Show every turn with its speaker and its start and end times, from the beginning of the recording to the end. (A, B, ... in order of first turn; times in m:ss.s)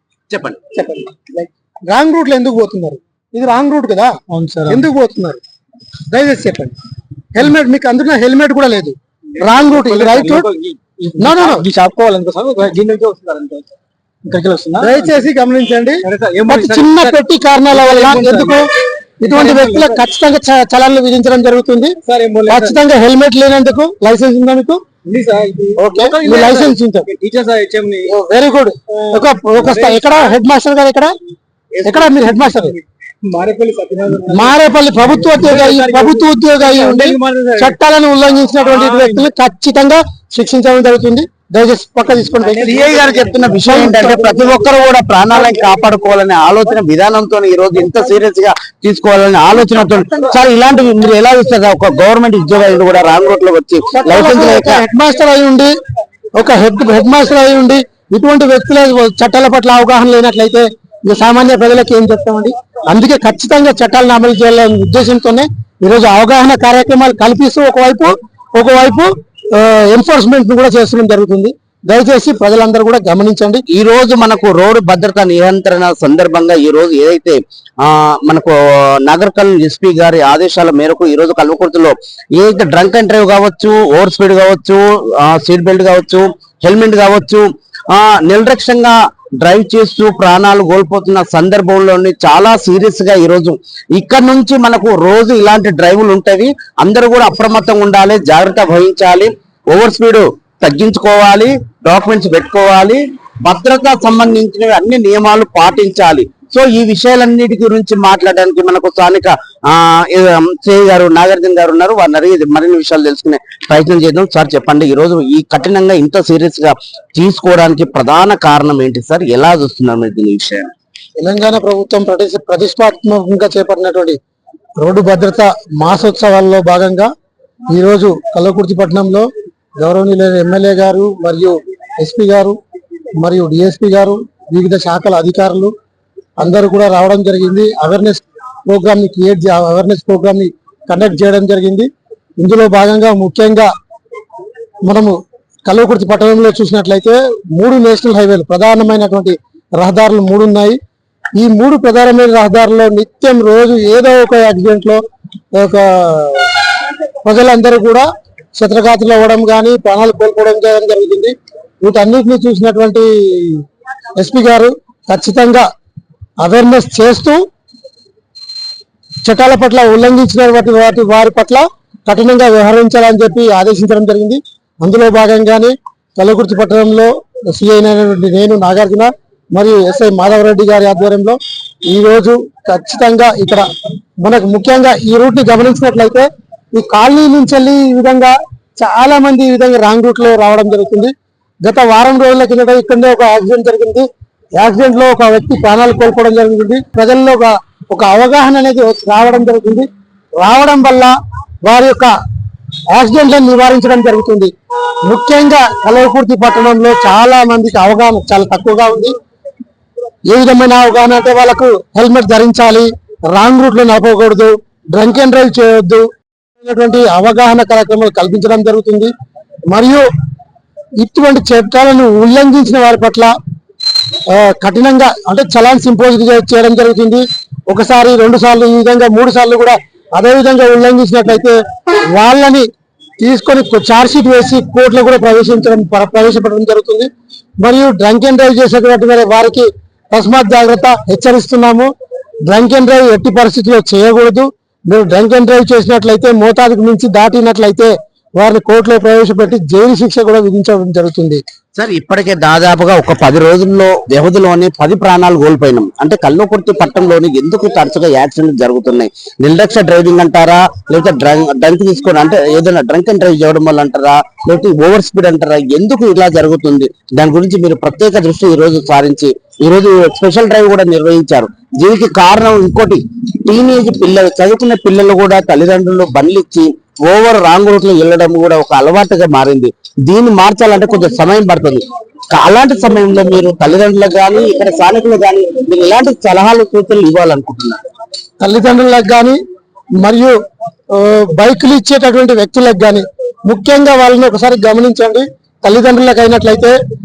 0:00.3-0:00.6 A
0:00.7-0:05.4 B
0:04.3-0:04.8 C
0:06.1-0:06.7 B
0:07.3-0:10.5 B
0:09.4-0:13.7 C
0:11.2-0:11.6 B
0:14.2-0:15.2 C
0:14.8-0:18.7 B
0:16.0-0:18.6 C
0:19.2-0:21.9 B
0:19.3-0:20.0 C
0:22.0-0:22.8 C
0:22.5-0:24.8 B
0:25.0-0:28.1 C
0:25.8-0:27.1 B
0:28.1-0:31.1 B
0:28.9-0:30.4 C
0:31.7-0:34.6 C
0:31.8-0:32.7 B
0:34.3-0:42.8 B
0:35.2-0:37.8 C
0:38.6-0:39.3 C
0:42.4-0:43.7 C
0:42.6-0:54.8 A
0:43.6-0:44.5 B
0:53.9-0:55.7 B
0:56.4-1:13.6 B
1:13.7-2:00.7 A
2:01.2-2:04.2 B
2:04.8-2:07.1 B
2:07.7-2:12.6 B
2:13.2-2:15.7 B
2:16.4-2:21.9 B
2:22.4-2:23.7 B
2:24.8-2:25.2 B
2:25.7-2:30.8 B
2:31.4-2:35.0 B
2:35.5-2:36.5 B
2:37.2-2:43.6 B
2:44.2-2:45.6 B
2:46.4-2:47.4 B
2:49.2-3:03.6 B
3:04.2-3:11.1 B
3:11.6-3:14.0 B
3:14.6-3:22.1 B
3:22.9-3:24.5 B
3:25.1-3:29.1 B
3:30.3-3:36.0 B
3:36.6-3:39.1 B
3:39.7-3:40.0 B
3:41.0-3:43.3 B
3:44.3-3:51.6 B
3:52.1-3:52.7 B
3:53.2-3:57.1 B
3:57.6-4:01.9 B
4:02.5-4:11.4 B
4:11.8-4:47.8 A
4:48.4-4:49.4 B
4:50.0-4:50.3 B
4:50.9-4:56.8 B